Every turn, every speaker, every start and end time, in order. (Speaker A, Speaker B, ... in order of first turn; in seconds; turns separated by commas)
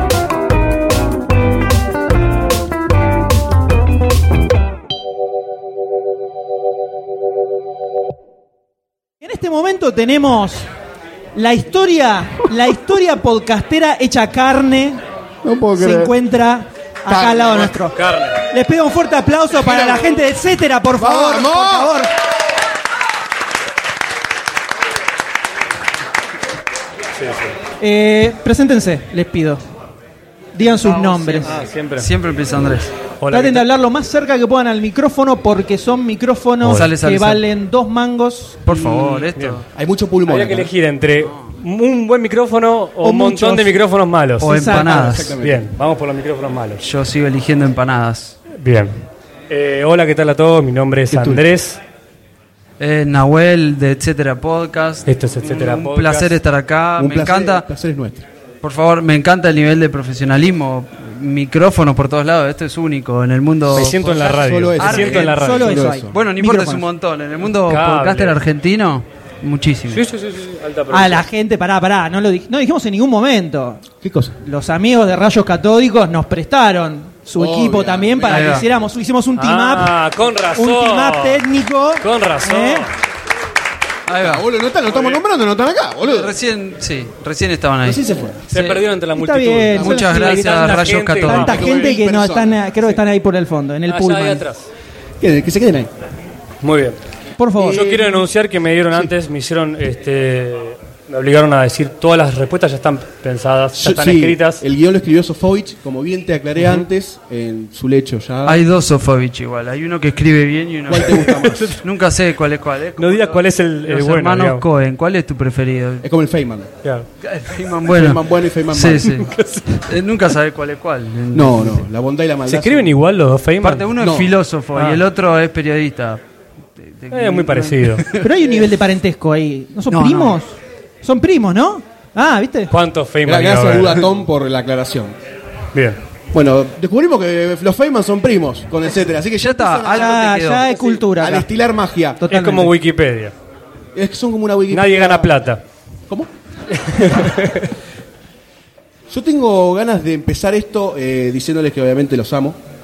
Speaker A: 9.2-10.7, Speaker A: 11.3-15.0, Speaker B: 15.4-16.1, Speaker A: 15.8-17.9, Speaker B: 17.1-17.7, Speaker C: 17.8-18.4, Speaker A: 18.5-22.1, Speaker B: 19.5-20.2, Speaker B: 21.0-22.0, Speaker C: 27.2-27.6, Speaker A: 27.8-29.6, Speaker A: 30.6-31.6, Speaker D: 30.7-32.9, Speaker C: 31.4-32.1, Speaker C: 33.2-33.6, Speaker A: 33.3-38.7, Speaker D: 36.6-37.4, Speaker D: 38.7-39.6, Speaker C: 38.7-39.6, Speaker B: 39.8-40.7, Speaker C: 40.3-46.8, Speaker D: 41.2-41.5, Speaker A: 43.0-43.8, Speaker A: 44.4-44.9, Speaker D: 44.4-45.4, Speaker B: 44.8-45.7, Speaker D: 46.8-48.4, Speaker C: 48.5-51.8, Speaker B: 51.1-51.4, Speaker D: 52.8-57.7, Speaker C: 55.1-56.4, Speaker B: 57.0-58.2, Speaker D: 58.6-65.5, Speaker C: 63.7-65.9, Speaker B: 63.7-66.2, Speaker A: 65.3-66.8, Speaker D: 66.1-70.0, Speaker C: 67.7-68.4, Speaker C: 69.9-71.2, Speaker A: 70.9-73.8, Speaker B: 74.0-74.4, Speaker A: 74.4-79.9, Speaker B: 77.4-78.7, Speaker D: 78.3-78.6, Speaker C: 79.4-81.4, Speaker A: 80.6-82.9, Speaker C: 82.0-82.9, Speaker D: 84.1-84.4, Speaker B: 84.2-86.3, Speaker D: 86.1-88.8, Speaker B: 87.8-88.4, Speaker C: 88.5-92.0, Speaker A: 89.2-94.5, Speaker D: 89.8-91.6, Speaker B: 91.3-92.7, Speaker C: 93.9-94.7, Speaker B: 95.2-95.9, Speaker C: 96.6-97.0, Speaker A: 97.4-97.9, Speaker C: 97.6-104.6, Speaker B: 97.6-98.2, Speaker B: 103.8-108.6, Speaker D: 108.5-116.0, Speaker B: 110.9-111.8, Speaker C: 111.1-111.8, Speaker C: 113.0-114.6, Speaker B: 116.0-116.7, Speaker D: 117.2-119.3, Speaker B: 117.9-119.3, Speaker C: 119.3-119.9, Speaker D: 119.9-121.9, Speaker B: 121.3-122.9, Speaker C: 122.5-123.9, Speaker D: 123.6-126.2, Speaker B: 124.0-124.3, Speaker C: 124.8-125.0, Speaker D: 126.8-128.7, Speaker C: 127.1-128.1, Speaker A: 128.2-132.7, Speaker D: 129.9-130.4, Speaker C: 132.7-134.0, Speaker B: 133.2-135.2, Speaker C: 135.7-136.0, Speaker B: 136.3-140.3, Speaker D: 139.4-140.7, Speaker A: 139.9-141.5, Speaker B: 141.1-142.2, Speaker A: 142.2-142.7, Speaker C: 142.3-143.3, Speaker B: 143.9-145.3, Speaker C: 144.7-145.6, Speaker C: 146.7-147.7, Speaker B: 149.1-152.6